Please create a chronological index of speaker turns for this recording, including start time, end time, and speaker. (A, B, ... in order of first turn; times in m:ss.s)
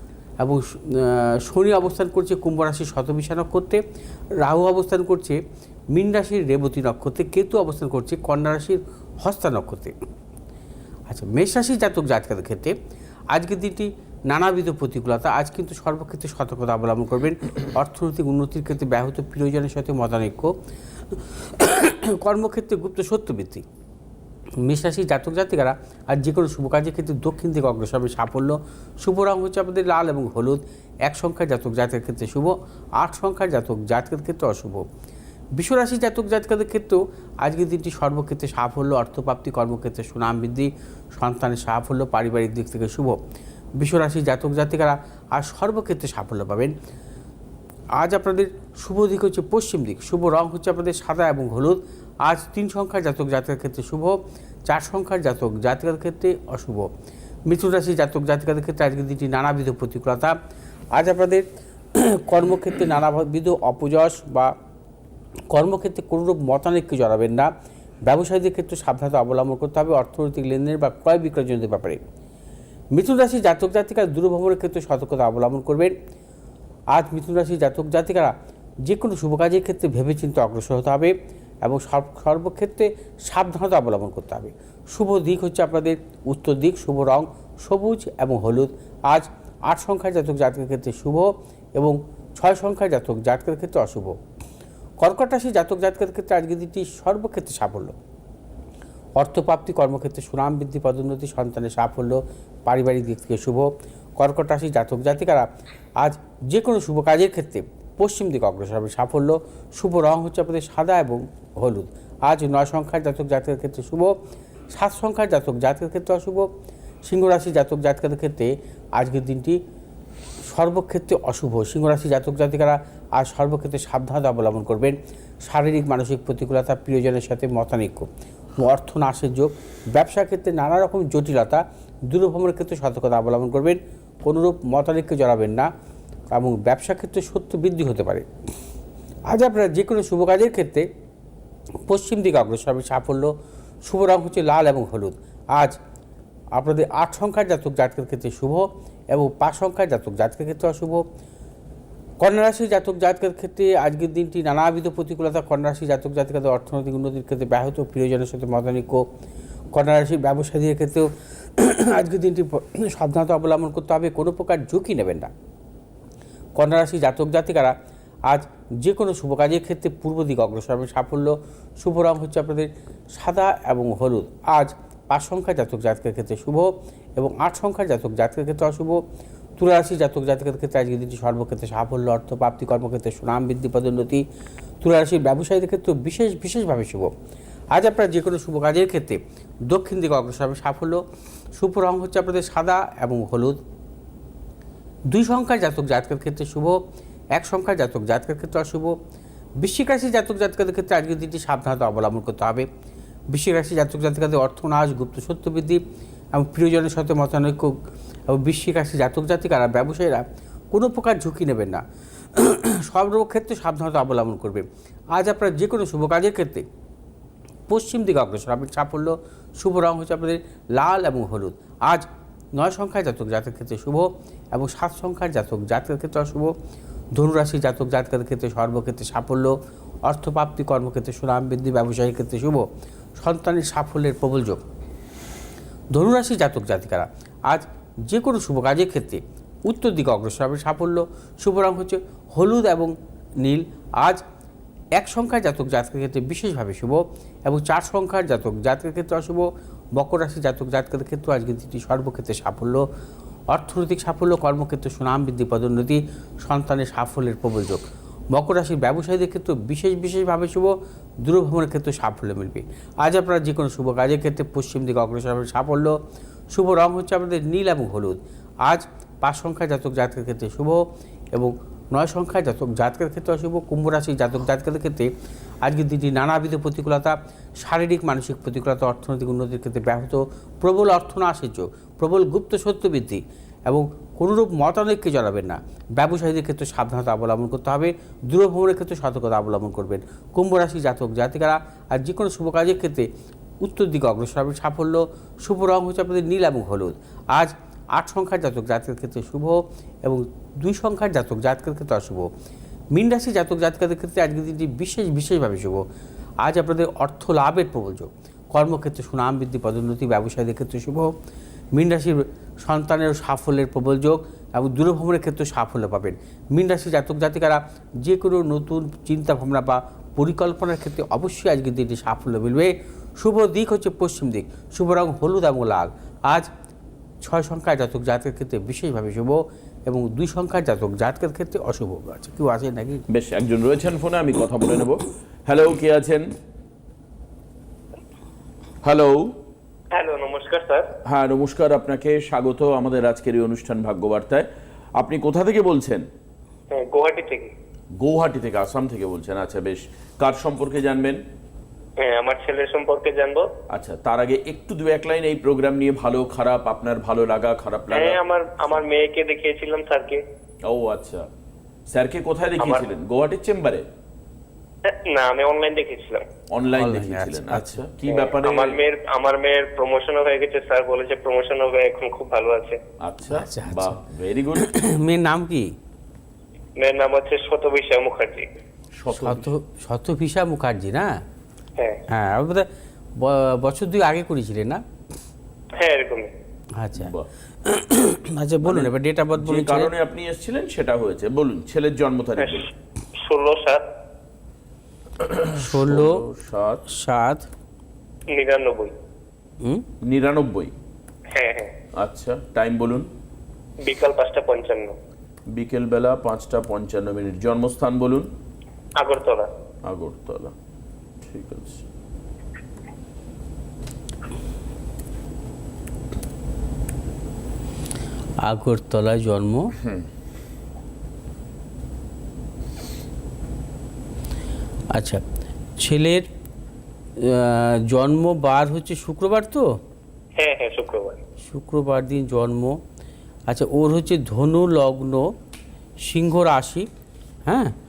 0:00.4-0:03.8 A
0:04.4-0:05.4 A
0:05.9-0:09.9 A
0:11.1-0:12.7 A
0:13.3-0:20.5 A
0:21.1-0:23.6 A
0:24.6-0:34.8 A
0:35.6-0:43.2 A
0:43.8-0:46.7 A
0:48.0-0:56.9 A
0:57.5-1:00.4 A
1:00.9-1:04.5 A
1:05.5-1:07.5 A
1:08.1-1:12.0 A
1:12.9-1:15.9 A
1:16.9-1:18.3 A
1:18.8-1:34.2 A
1:35.0-1:37.9 A
1:39.2-1:45.5 A
1:46.0-1:54.1 A
1:54.7-1:56.5 A
1:57.0-1:59.6 A
2:00.5-2:15.7 A
2:16.3-2:18.2 A
2:19.3-2:20.9 A
2:21.9-2:23.3 A
2:23.8-2:25.8 A
2:26.5-2:31.0 A
2:32.2-2:39.1 A
2:39.7-2:45.3 A
2:46.6-2:47.7 A
2:48.3-2:59.0 A
2:59.6-3:04.2 A
3:04.8-3:07.1 A
3:07.7-3:11.0 A
3:11.6-3:13.6 A
3:15.1-3:16.8 A
3:17.4-3:18.9 A
3:19.6-3:22.7 A
3:23.3-3:25.8 A
3:26.3-3:31.8 A
3:32.3-3:36.6 A
3:37.7-3:46.5 A
3:47.2-3:52.6 A
3:53.2-3:54.6 A
3:55.9-4:04.2 A
4:05.0-4:09.4 A
4:10.0-4:12.8 A
4:13.5-4:26.0 A
4:26.5-4:30.8 A
4:31.3-4:35.1 A
4:35.6-4:53.1 A
4:53.6-5:02.3 A
5:02.9-5:05.8 A
5:06.4-5:11.1 A
5:11.7-5:26.5 A
5:27.2-5:33.0 A
5:33.1-5:36.2 B
5:38.8-5:39.3 B
5:39.9-5:40.9 C
5:41.0-5:46.0 B
5:46.7-5:47.5 C
5:48.0-5:51.2 B
5:52.0-5:53.5 C
5:53.7-5:58.2 B
5:57.9-6:00.2 C
6:00.6-6:01.3 B
6:01.9-6:03.8 B
6:02.6-6:02.8 C
6:04.8-6:06.2 C
6:06.5-6:08.8 B
6:06.8-6:07.8 A
6:08.1-6:12.8 C
6:13.0-6:14.7 B
6:13.3-6:14.0 A
6:14.6-6:15.7 A
6:16.8-6:18.5 C
6:19.0-6:19.5 B
6:19.1-6:21.2 A
6:22.1-6:22.7 A
6:23.2-6:24.8 A
6:25.8-6:26.3 C
6:26.8-6:27.1 A
6:27.0-6:27.3 B
6:27.6-6:29.9 A
6:28.6-6:32.7 B
6:32.4-6:32.6 C
6:33.2-6:33.8 C
6:35.2-6:36.8 B
6:35.5-6:36.2 A
6:36.9-6:37.4 A
6:38.3-6:38.9 C
6:40.0-6:40.7 B
6:41.3-6:41.7 C
6:42.0-6:43.1 B
6:43.8-6:45.0 C
6:45.5-6:48.3 B
6:49.0-6:49.5 C
6:49.8-6:50.5 B
6:51.2-6:51.8 B
6:58.4-6:59.7 A
6:59.8-7:00.1 B
7:04.9-7:05.2 A
7:05.8-7:06.2 A
7:07.2-7:09.7 A
7:10.4-7:11.2 C
7:11.4-7:12.8 A
7:13.5-7:15.3 A
7:16.0-7:16.9 A
7:17.4-7:17.7 A